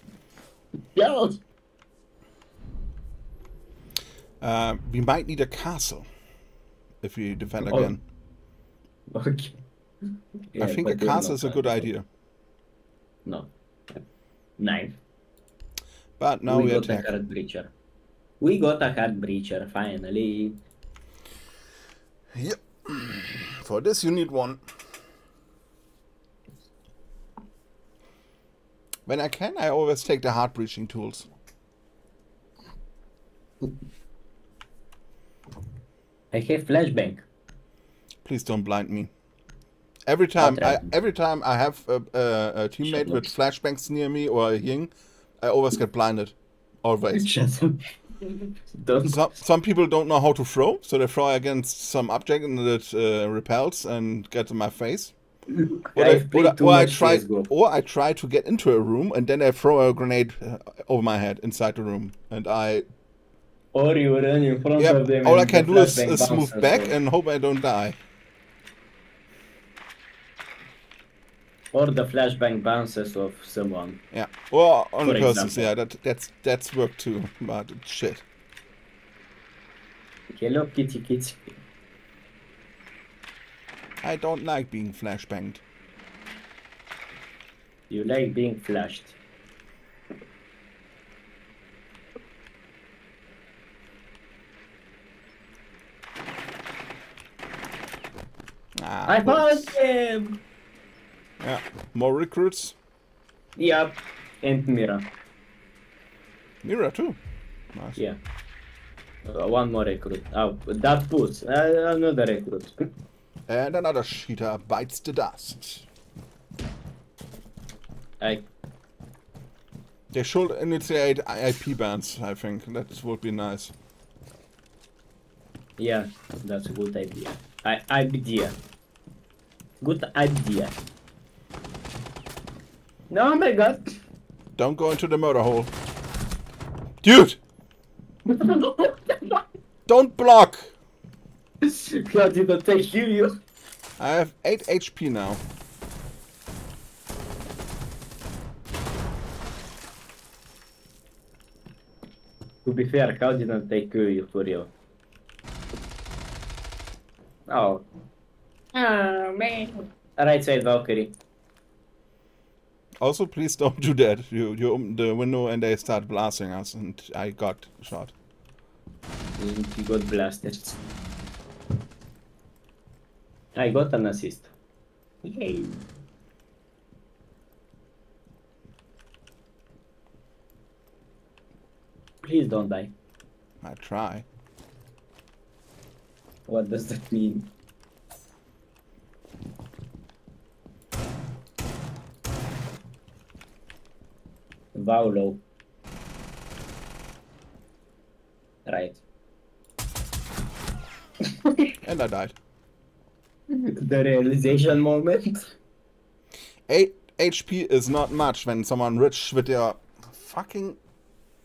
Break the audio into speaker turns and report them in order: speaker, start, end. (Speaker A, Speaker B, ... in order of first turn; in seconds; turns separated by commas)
Speaker A: 0.9-1.4, Speaker B: 4.4-6.0, Speaker B: 7.0-8.0, Speaker A: 9.1-9.6, Speaker A: 10.5-11.9, Speaker B: 10.6-12.0, Speaker A: 13.2-14.0, Speaker A: 14.6-15.0, Speaker B: 16.2-17.1, Speaker A: 16.5-17.7, Speaker A: 18.4-20.6, Speaker B: 22.3-24.6, Speaker B: 29.1-31.3, Speaker A: 36.3-37.2, Speaker B: 38.2-39.1, Speaker B: 40.1-47.3, Speaker A: 40.4-40.9, Speaker A: 42.8-43.3, Speaker A: 47.1-49.2, Speaker B: 49.0-55.1, Speaker A: 55.5-57.5, Speaker B: 55.9-62.8, Speaker A: 63.7-66.9, Speaker B: 64.8-68.0, Speaker A: 71.7-74.0, Speaker B: 74.1-78.2, Speaker A: 75.0-75.7, Speaker A: 80.3-81.6, Speaker B: 84.0-85.6, Speaker A: 87.9-89.2, Speaker B: 98.8-99.7, Speaker A: 99.1-100.4, Speaker B: 101.4-102.8, Speaker A: 103.5-105.0, Speaker B: 106.6-107.2, Speaker B: 107.7-108.0, Speaker A: 109.2-112.9, Speaker B: 113.5-115.8, Speaker A: 118.2-118.5, Speaker B: 120.1-123.7, Speaker A: 125.8-128.6, Speaker A: 129.8-130.8, Speaker A: 133.1-134.0, Speaker B: 134.6-135.7, Speaker B: 137.0-137.4, Speaker A: 138.2-139.4, Speaker B: 139.9-140.7, Speaker A: 141.6-143.4, Speaker B: 144.0-145.4, Speaker A: 152.6-154.7, Speaker A: 157.5-157.8, Speaker A: 158.7-161.1, Speaker B: 163.0-168.1, Speaker A: 169.4-170.8, Speaker A: 173.5-174.5, Speaker A: 175.2-175.8, Speaker A: 182.2-182.9, Speaker B: 183.6-184.2, Speaker A: 186.5-187.5, Speaker A: 194.7-195.4, Speaker A: 198.7-199.0, Speaker A: 201.2-201.7, Speaker B: 201.8-202.3, Speaker A: 203.5-205.5, Speaker B: 206.7-210.8